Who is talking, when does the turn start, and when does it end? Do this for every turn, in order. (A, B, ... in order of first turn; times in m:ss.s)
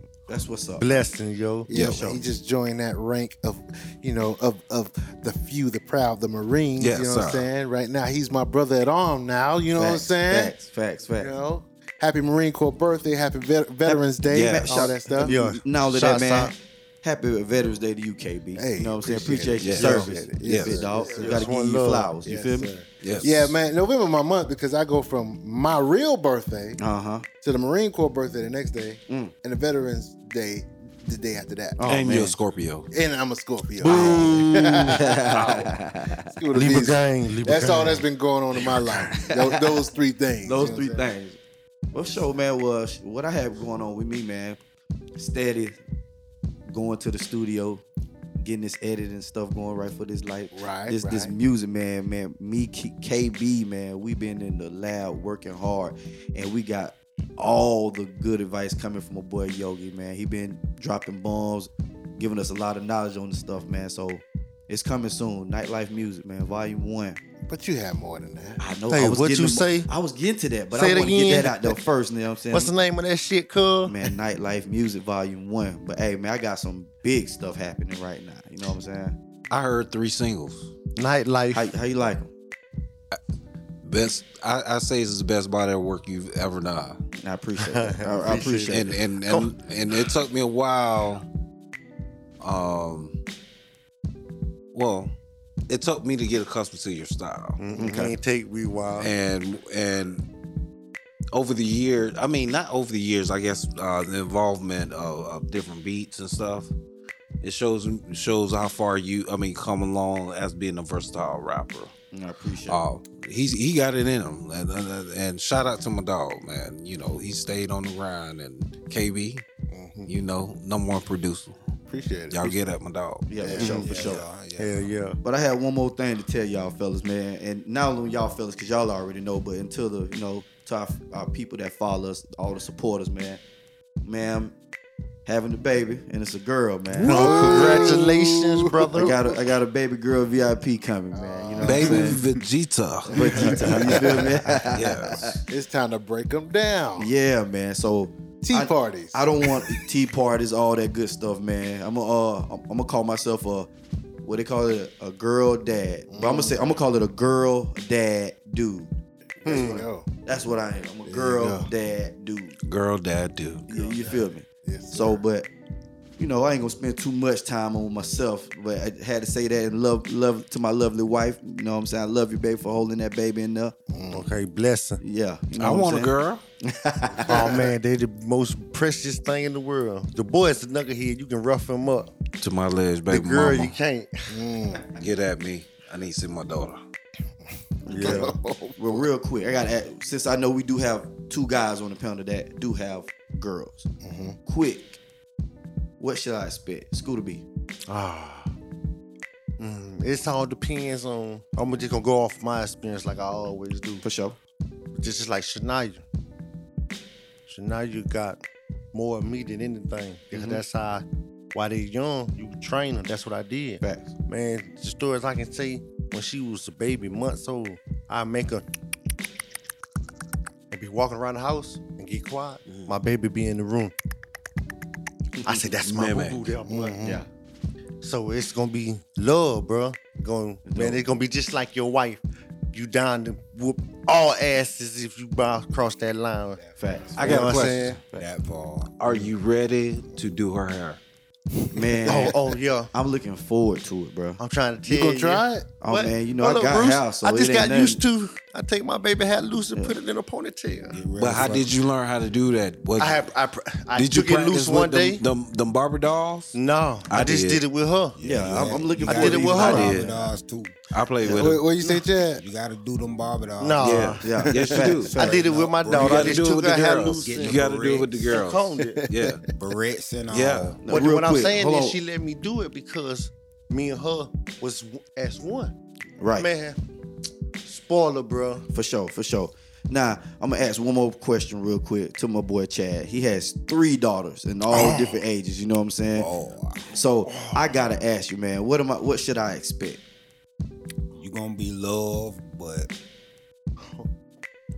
0:00.3-0:01.0 A
0:00.8-0:01.7 B
0:01.7-0:10.6 C
0:01.7-0:02.2 A
0:01.7-0:02.0 D
0:06.8-0:07.5 D
0:09.8-0:11.3 A
0:11.1-0:15.3 C
0:13.8-0:22.7 A
0:14.3-0:14.8 D
0:15.2-0:16.5 B
0:18.5-0:21.5 C
0:19.6-0:20.8 D
0:21.0-0:22.1 B
0:22.2-0:26.8 C
0:23.0-0:23.5 D
0:26.8-0:27.2 A
0:27.4-0:31.8 C
0:29.1-0:29.3 A
0:31.8-0:32.4 A
0:31.9-0:32.9 D
0:32.9-0:35.1 C
0:33.8-0:35.7 D
0:33.8-0:36.3 A
0:36.3-0:41.0 C
0:36.5-0:38.0 B
0:38.6-0:39.8 A
0:40.4-0:41.4 A
0:41.9-0:44.6 A
0:45.2-0:45.8 A
0:46.7-0:47.8 A
0:48.4-1:07.2 A
0:50.5-0:51.3 C
1:07.5-1:08.6 C
1:08.6-1:12.7 A
1:08.9-1:09.9 B
1:10.7-1:11.8 B
1:12.5-1:14.1 B
1:13.8-1:19.2 A
1:19.5-1:20.7 D
1:21.0-1:21.7 B
1:21.5-1:22.3 A
1:23.8-1:27.0 D
1:27.2-1:28.9 A
1:27.7-1:29.5 B
1:28.7-1:31.2 D
1:32.4-1:33.2 D
1:34.7-1:35.1 D
1:35.7-1:37.6 D
1:37.6-1:39.1 B
1:37.7-1:38.1 A
1:39.0-1:40.2 D
1:41.3-1:46.7 D
1:47.4-1:51.9 D
1:52.1-1:52.8 A
1:52.7-1:59.4 D
1:59.7-2:00.1 C
2:00.1-2:01.6 D
2:01.9-2:02.6 C
2:02.3-2:03.2 D
2:03.3-2:04.2 A
2:03.4-2:03.8 C
2:03.5-2:05.2 B
2:03.6-2:04.9 E
2:05.2-2:13.4 A
2:14.0-2:14.5 A
2:15.2-2:17.3 A
2:16.9-2:18.2 D
2:17.0-2:19.2 B
2:17.0-2:19.3 C
2:19.0-2:22.2 A
2:21.1-2:22.2 C
2:21.6-2:23.1 D
2:23.1-2:25.4 A
2:23.1-2:24.6 C
2:23.3-2:24.2 B
2:24.7-2:25.3 D
2:25.5-2:27.1 C
2:27.0-2:33.7 A
2:28.4-2:29.7 C
2:34.2-2:42.6 A
2:36.1-2:36.6 C
2:39.4-2:40.1 C
2:39.5-2:39.8 B
2:41.0-2:41.7 C
2:42.6-2:43.7 D
2:43.7-2:45.5 A
2:43.7-2:45.2 C
2:46.2-2:53.7 A
2:53.9-2:54.3 C
2:54.1-2:55.0 B
2:55.0-2:57.7 A
2:55.6-2:56.4 D
2:57.2-3:02.1 B
3:02.4-3:03.7 D
3:03.1-3:04.3 B
3:04.3-3:04.8 C
3:05.0-3:06.8 D
3:07.8-3:13.8 A
3:07.9-3:08.3 B
3:08.0-3:09.0 C
3:14.0-3:14.4 C
3:14.4-3:15.0 A
3:16.0-3:17.4 A
3:17.9-3:18.4 C
3:18.2-3:18.4 B
3:19.6-3:24.0 B
3:24.0-3:24.4 A
3:25.0-3:26.0 B
3:27.5-3:28.4 B
3:28.9-3:38.6 B
3:30.3-3:30.6 A
3:33.8-3:34.1 A
3:40.7-3:43.9 B
3:45.4-3:45.6 A
3:45.4-3:47.2 B
3:45.8-3:46.5 D
3:46.7-3:47.2 C
3:48.0-3:56.6 B
3:50.6-3:51.0 A
3:56.6-3:59.0 E
3:56.8-3:57.1 A
3:57.2-3:57.8 D
3:57.2-3:58.0 B
3:59.0-4:01.0 D
4:01.7-4:02.4 A
4:02.0-4:02.9 B
4:02.9-4:04.4 A
4:04.4-4:11.0 B
4:04.8-4:05.7 C
4:05.8-4:08.0 A
4:10.9-4:11.8 E
4:11.2-4:13.3 D
4:13.0-4:15.2 B
4:13.9-4:16.6 D
4:16.5-4:18.2 B
4:17.1-4:17.6 D
4:18.1-4:20.8 E
4:18.2-4:20.3 A
4:19.0-4:20.0 B
4:19.6-4:20.0 D
4:20.9-4:21.6 D
4:21.2-4:21.5 A
4:21.4-4:22.4 C
4:22.4-4:24.1 E
4:23.6-4:27.6 B
4:23.8-4:25.1 D
4:24.2-4:25.2 A
4:25.1-4:26.5 E
4:25.9-4:29.4 D
4:27.0-4:28.3 E
4:28.2-4:29.0 B
4:29.5-4:30.8 E
4:30.3-4:30.8 D
4:30.8-4:32.0 A
4:30.9-4:35.7 B
4:36.2-4:36.5 A
4:36.4-4:36.8 B
4:37.6-4:38.7 B
4:38.7-4:46.3 A
4:46.1-4:47.3 E
4:46.9-4:50.0 A
4:51.1-4:52.9 E